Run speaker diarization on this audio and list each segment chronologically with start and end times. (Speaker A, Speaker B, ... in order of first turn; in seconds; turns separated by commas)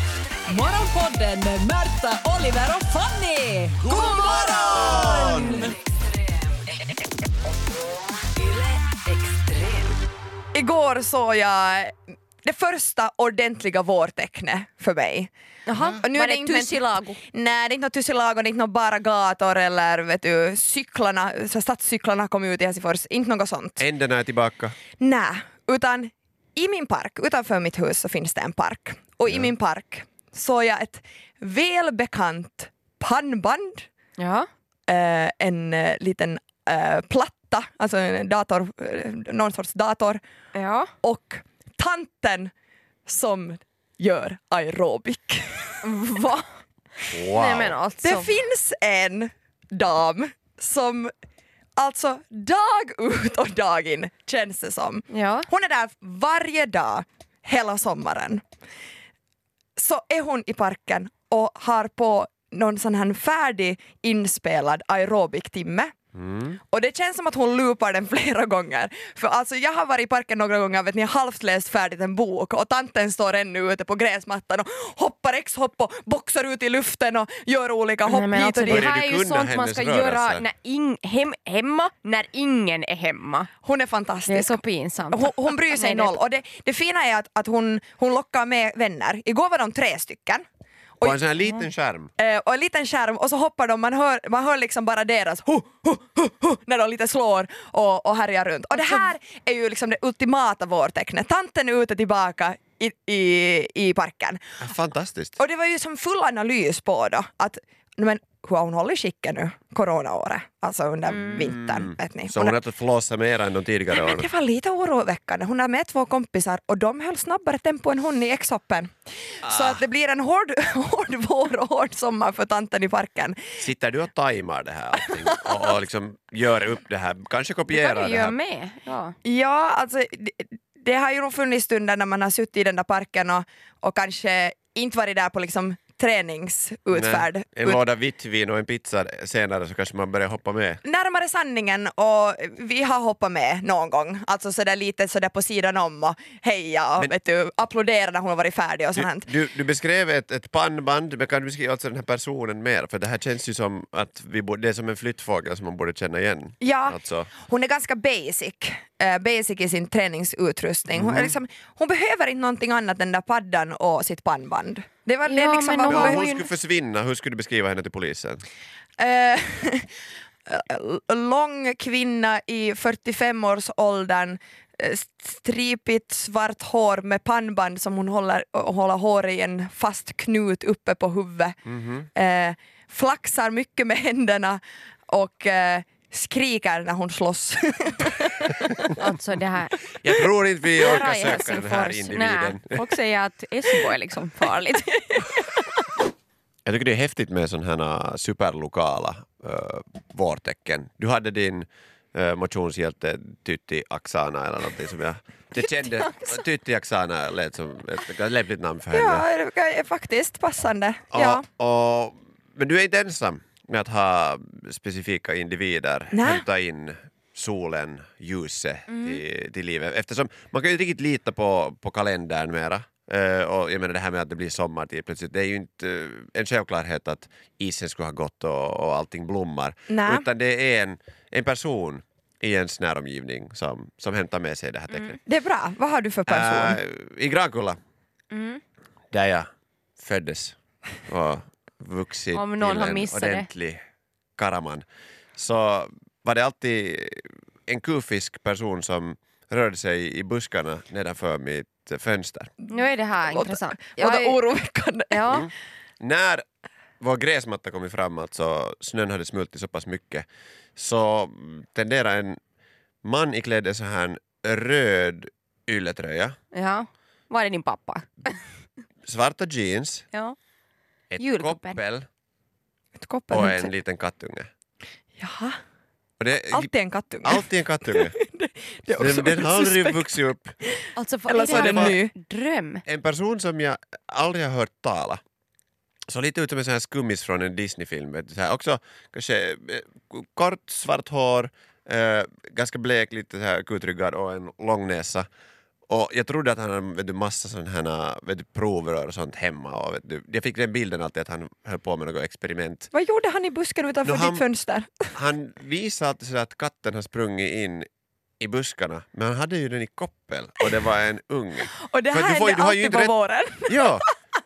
Speaker A: 0.5-5.7, Speaker B: 3.8-5.7, Speaker A: 8.8-9.8, Speaker C: 10.5-23.9, Speaker D: 15.7-17.2, Speaker B: 23.8-24.8, Speaker C: 25.0-33.9, Speaker D: 34.2-34.5, Speaker C: 34.9-40.2, Speaker D: 40.5-40.9, Speaker C: 41.0-42.5, Speaker C: 43.0-45.8, Speaker D: 45.8-46.5, Speaker D: 47.0-48.3, Speaker B: 47.1-47.8, Speaker C: 48.0-51.1, Speaker C: 51.8-58.4, Speaker D: 55.1-55.5, Speaker C: 59.8-65.9, Speaker B: 66.2-66.5, Speaker C: 66.6-78.9, Speaker D: 78.1-83.5, Speaker B: 78.7-80.4, Speaker C: 83.6-84.6, Speaker D: 84.3-86.2, Speaker C: 85.1-90.4, Speaker B: 91.0-92.1, Speaker C: 92.2-104.5, Speaker B: 104.6-105.4, Speaker C: 105.4-112.6, Speaker D: 111.0-111.6, Speaker B: 111.4-114.3, Speaker C: 113.9-123.4, Speaker B: 119.4-119.8, Speaker B: 123.6-128.3, Speaker D: 127.7-129.2, Speaker C: 129.2-137.8, Speaker B: 136.9-140.8, Speaker C: 140.8-149.3, Speaker B: 148.9-157.3, Speaker C: 156.6-166.2, Speaker B: 160.9-161.3, Speaker D: 165.2-166.5, Speaker B: 165.9-168.4, Speaker C: 169.0-169.9, Speaker C: 170.5-181.6, Speaker B: 181.7-182.1, Speaker C: 182.2-188.9, Speaker D: 189.0-189.8, Speaker B: 189.9-192.8, Speaker D: 190.8-195.1, Speaker B: 196.7-209.2, Speaker D: 205.6-206.4, Speaker C: 208.9-211.4, Speaker B: 211.1-235.2, Speaker C: 216.1-216.4, Speaker D: 218.9-219.2, Speaker C: 229.9-230.2, Speaker D: 234.9-235.2, Speaker C: 235.2-236.8, Speaker B: 236.3-237.8, Speaker D: 238.3-238.6, Speaker B: 239.1-239.5, Speaker B: 240.0-243.8, Speaker D: 242.3-243.5, Speaker B: 244.4-244.8, Speaker B: 245.4-252.5, Speaker C: 252.6-255.4, Speaker D: 252.7-254.4, Speaker D: 255.1-255.4, Speaker B: 255.3-256.4, Speaker B: 257.0-262.4, Speaker B: 263.1-266.4, Speaker D: 266.5-268.4, Speaker B: 269.1-270.1, Speaker B: 271.1-272.1, Speaker D: 271.2-271.8, Speaker C: 273.0-273.7, Speaker B: 273.3-274.5, Speaker C: 275.2-275.6, Speaker B: 276.2-276.7, Speaker C: 276.5-282.1, Speaker B: 277.2-278.2, Speaker B: 278.9-280.5, Speaker D: 280.9-282.8, Speaker B: 281.5-281.9, Speaker B: 282.9-285.2, Speaker B: 286.1-295.3, Speaker B: 295.9-302.9, Speaker C: 302.9-305.1, Speaker B: 304.0-304.4, Speaker B: 305.1-307.9, Speaker B: 308.4-313.1, Speaker C: 311.9-314.1, Speaker B: 313.6-314.1